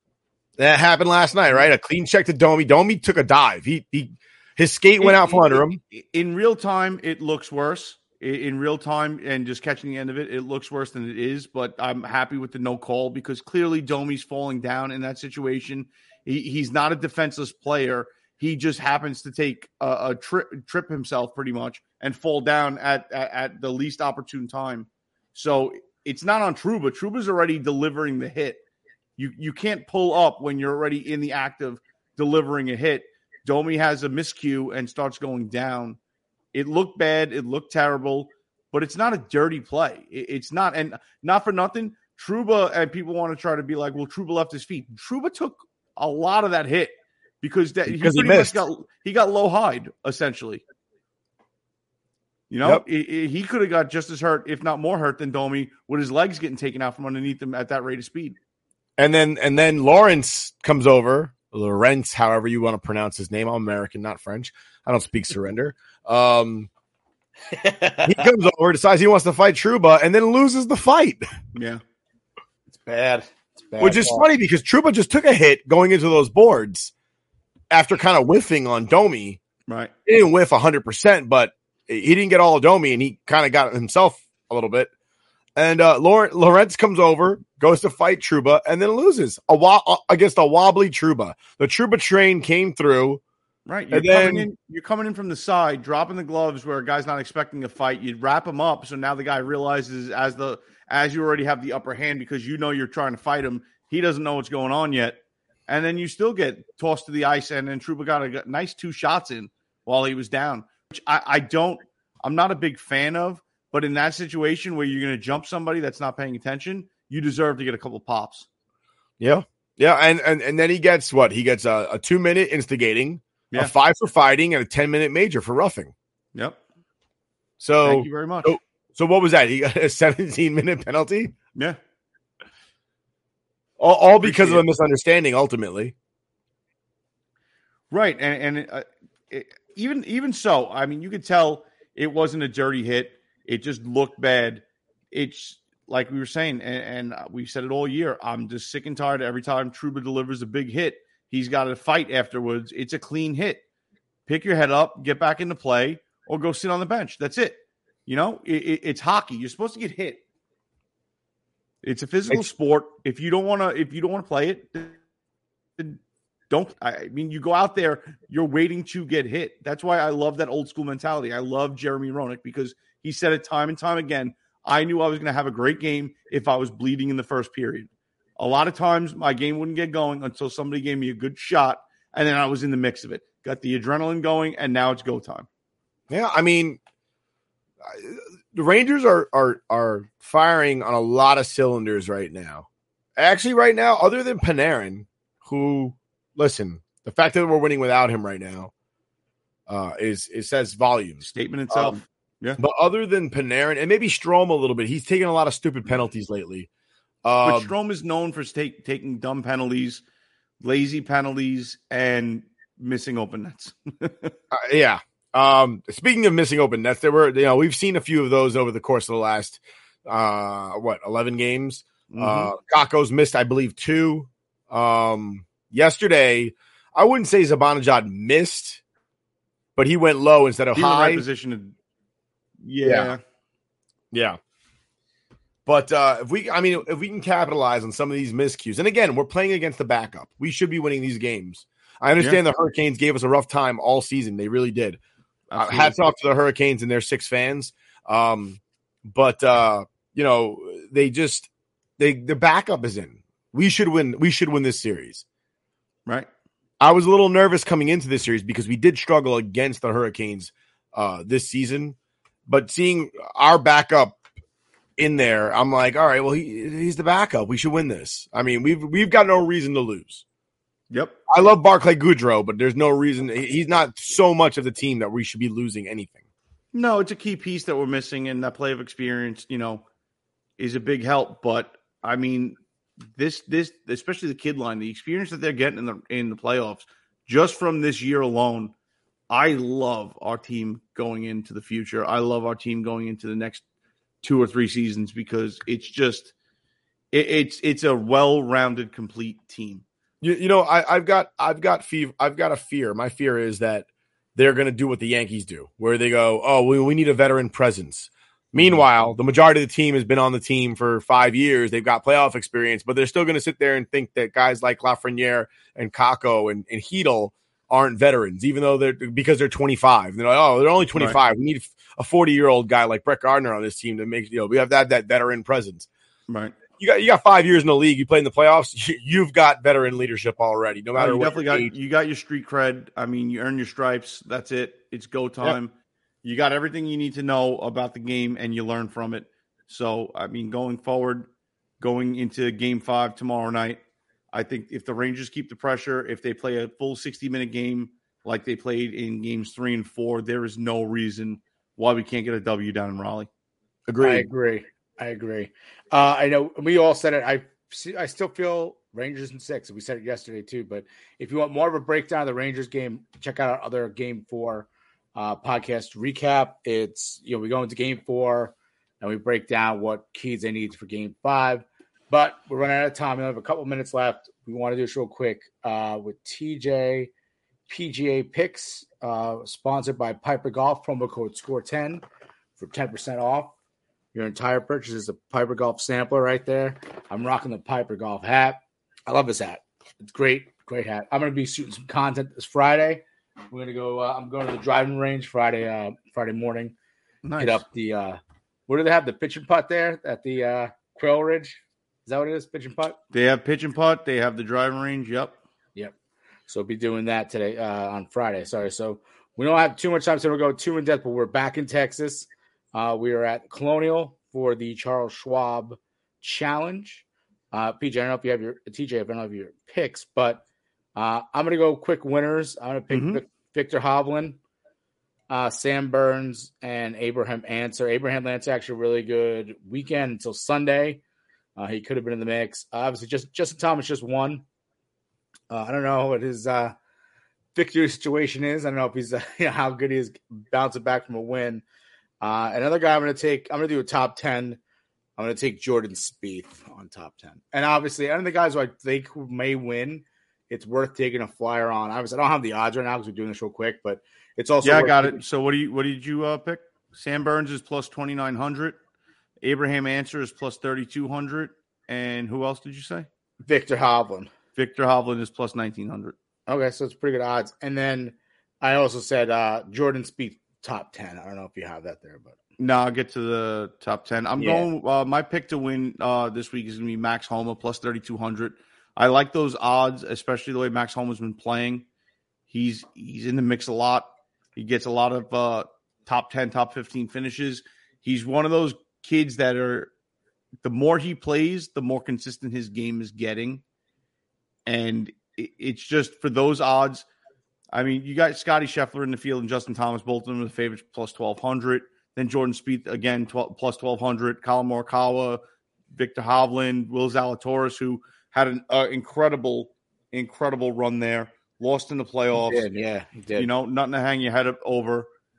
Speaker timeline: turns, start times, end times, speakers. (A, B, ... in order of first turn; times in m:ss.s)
0:00.6-0:05.8 A
0:05.0-0:28.6 B
0:29.2-0:36.0 B
0:36.5-0:50.6 B
0:47.9-0:48.6 A
0:52.5-0:58.4 B
0:59.0-1:06.7 A
1:07.5-1:08.3 C
1:08.0-1:11.2 A
1:11.6-1:11.8 B
1:12.7-1:14.3 C
1:13.8-1:16.9 A
1:17.7-1:19.4 A
1:19.7-1:19.9 B
1:20.1-1:24.9 A
1:25.6-1:33.2 A
1:33.6-1:58.5 B
1:33.9-1:34.5 A
1:59.2-2:05.9 A
2:06.4-2:06.6 B
2:07.6-2:11.3 A
2:07.8-2:08.6 B
2:13.8-2:15.9 A
2:14.2-2:14.6 B
2:17.9-2:33.6 B
2:34.3-2:40.2 B
2:41.8-2:45.0 B
2:46.5-3:05.5 B
3:06.1-3:06.8 A
3:07.8-3:12.6 A
3:13.2-3:18.7 A
3:19.7-3:22.0 A
3:21.2-3:22.6 B
3:22.6-3:26.7 A
3:27.2-3:27.7 A
3:27.4-3:30.0 B
3:30.6-3:34.3 B
3:34.5-3:48.8 A
3:42.1-3:42.5 B
3:49.8-3:51.3 A
3:50.7-3:51.7 B
3:52.6-3:53.2 B
3:52.8-3:53.1 A
3:54.1-3:54.4 A
3:55.6-4:05.0 A
4:05.5-4:06.0 B
4:05.5-4:15.2 A
4:16.8-4:22.0 A
4:22.5-4:24.2 A
4:25.0-4:30.2 A
4:30.9-4:31.2 B
4:31.3-4:36.2 A
4:36.7-4:39.8 B
4:40.6-4:42.6 B
4:43.1-4:48.7 B
4:49.3-4:53.6 B
4:54.2-4:56.3 B
4:57.1-4:59.8 B
5:00.2-5:25.9 A
5:20.9-5:21.2 B
5:26.3-5:26.6 B
5:26.8-5:31.8 A
5:31.0-5:35.7 B
5:36.2-5:41.3 B
5:41.8-5:43.8 B
5:44.3-5:53.3 B
5:53.9-5:54.3 A
5:54.0-6:17.1 C
6:17.7-6:22.0 C
6:22.6-6:23.5 C
6:24.1-6:36.7 C
6:37.2-6:37.6 B
6:37.4-6:43.0 C
6:43.1-6:45.4 B
6:46.5-7:00.4 C
7:01.0-7:04.4 C
7:02.9-7:03.2 B
7:05.3-7:11.0 C
7:11.6-7:14.4 C
7:15.5-7:16.7 C
7:17.6-7:21.6 C
7:22.2-7:24.6 C
7:25.2-7:35.2 C
7:34.6-7:38.8 B
7:39.4-7:43.1 B
7:43.4-7:44.3 C
7:44.6-7:46.1 B
7:46.5-7:52.4 C
7:52.6-8:01.8 B
7:54.4-7:54.7 C
8:02.5-8:09.9 B
8:10.6-8:13.6 B
8:14.6-8:17.0 B
8:17.7-8:32.6 B
8:32.4-8:33.5 C
8:33.3-8:35.1 B